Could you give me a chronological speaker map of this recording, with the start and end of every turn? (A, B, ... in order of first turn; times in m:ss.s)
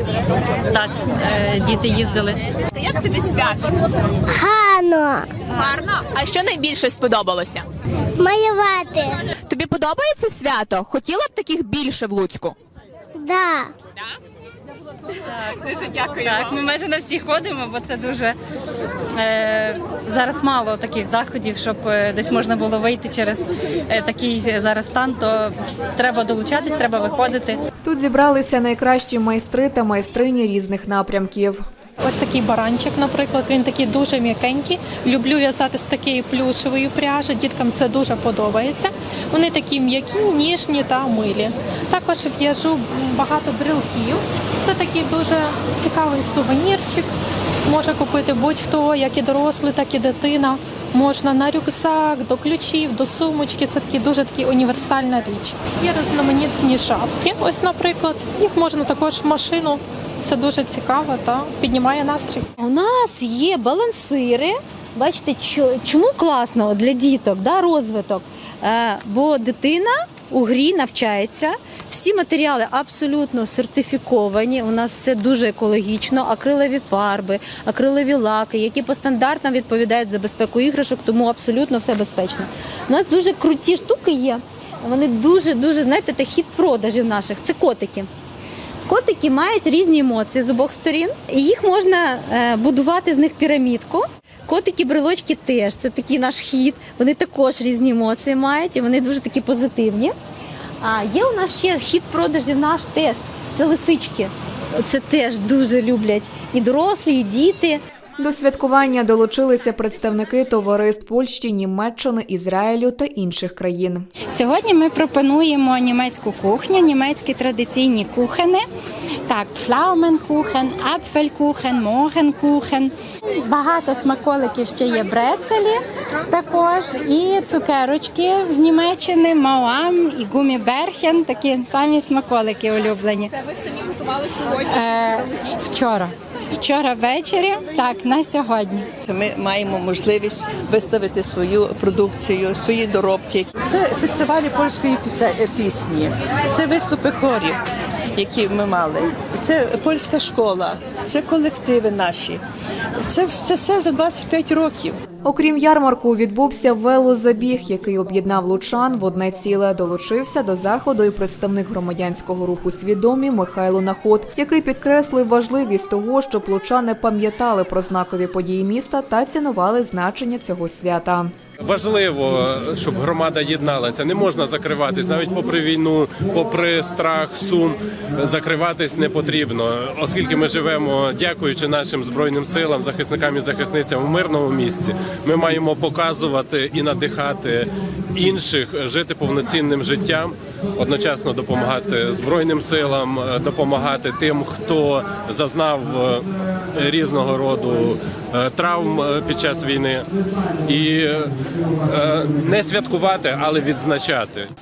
0:00.7-0:02.4 A
0:02.8-0:03.6 B
0:04.3-0:05.4 C
0:05.5-0:07.6 B
0:08.2-0:09.2 C
0:09.5-0:12.5 B
0:13.2-0:13.7 C
0:15.3-0:18.4 A
0:19.2-0:27.6 A
0:27.8-0:31.6 D
0:32.0-0:47.1 E
0:47.6-1:02.5 E
1:02.6-1:28.1 F
1:28.9-1:40.1 F
1:40.8-1:47.8 F
1:48.2-1:54.1 D
1:54.3-1:58.6 G
1:59.3-2:13.3 G
2:14.4-2:18.9 G
2:19.0-2:27.6 H
2:28.2-2:32.4 H
2:33.1-2:35.0 H
2:35.2-2:51.3 D
2:51.6-3:20.1 I
3:20.7-3:21.3 I
3:21.9-3:24.5 I